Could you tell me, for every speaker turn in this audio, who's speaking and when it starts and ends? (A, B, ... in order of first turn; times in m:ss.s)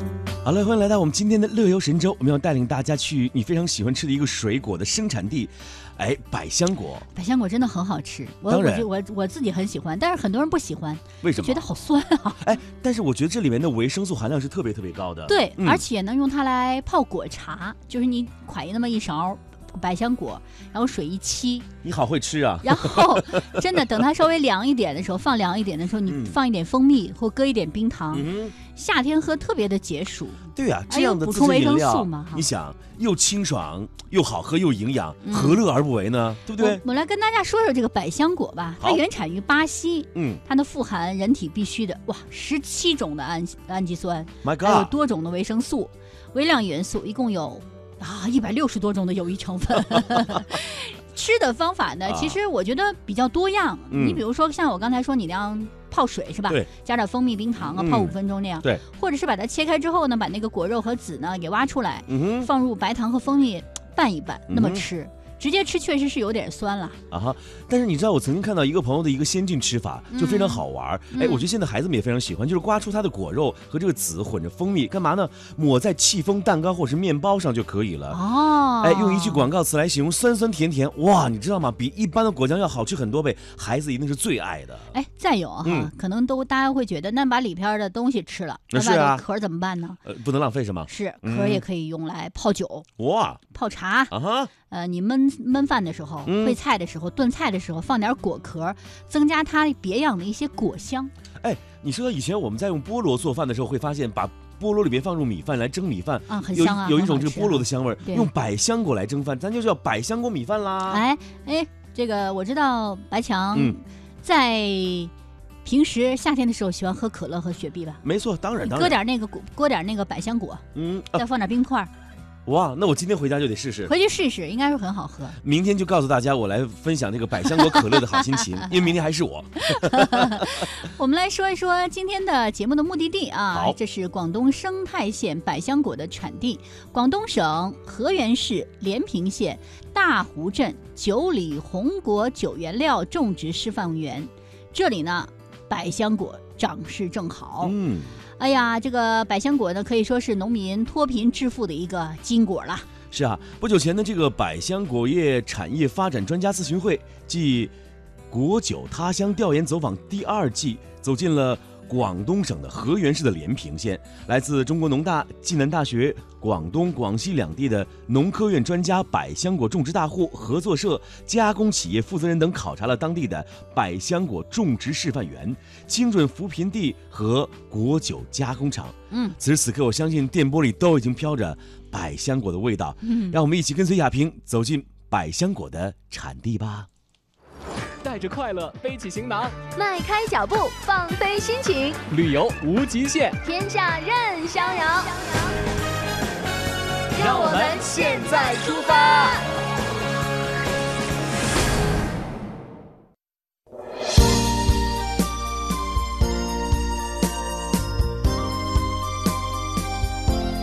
0:00.4-0:07.0 A
0:07.1-0:12.5 B
0:08.5-0:08.9 A
0:11.2-0:11.7 A
0:12.4-0:15.8 A
0:15.3-0:21.7 B
0:21.8-0:23.5 A
0:22.6-0:32.4 B
0:26.1-0:26.4 A
0:28.1-0:28.6 A
0:30.6-0:36.8 A
0:35.2-0:35.6 B
0:36.6-1:07.0 B
0:40.2-0:40.4 A
0:44.4-0:44.9 A
0:52.1-0:52.4 A
0:53.9-0:54.2 A
0:57.7-0:58.8 A
1:02.1-1:02.5 A
1:04.5-1:04.8 A
1:07.1-1:18.2 A
1:10.1-1:11.5 B
1:18.1-1:19.5 B
1:18.8-1:24.9 A
1:24.9-1:30.0 B
1:25.6-1:25.9 A
1:28.7-1:29.2 A
1:30.1-1:31.6 A
1:30.9-1:32.9 B
1:33.0-1:33.4 A
1:33.5-1:34.2 B
1:34.1-1:34.5 A
1:34.7-1:41.1 B
1:36.2-1:36.6 A
1:41.4-1:51.0 A
1:46.3-1:48.3 B
1:50.9-1:55.1 B
1:55.6-1:58.0 B
1:58.0-1:59.0 A
1:58.6-2:01.9 B
2:00.8-2:01.2 A
2:02.5-2:03.9 A
2:03.9-2:05.4 B
2:05.4-2:10.6 A
2:09.8-2:27.8 B
2:13.5-2:13.8 A
2:27.6-2:28.1 A
2:28.4-2:32.9 B
2:33.1-2:37.7 A
2:38.3-3:06.9 A
2:59.1-2:59.4 B
3:03.0-3:03.4 B
3:08.0-3:09.6 C
3:09.7-3:12.0 D
3:12.1-3:13.4 C
3:13.4-3:15.6 D
3:17.1-3:19.4 D
3:17.2-3:19.4 C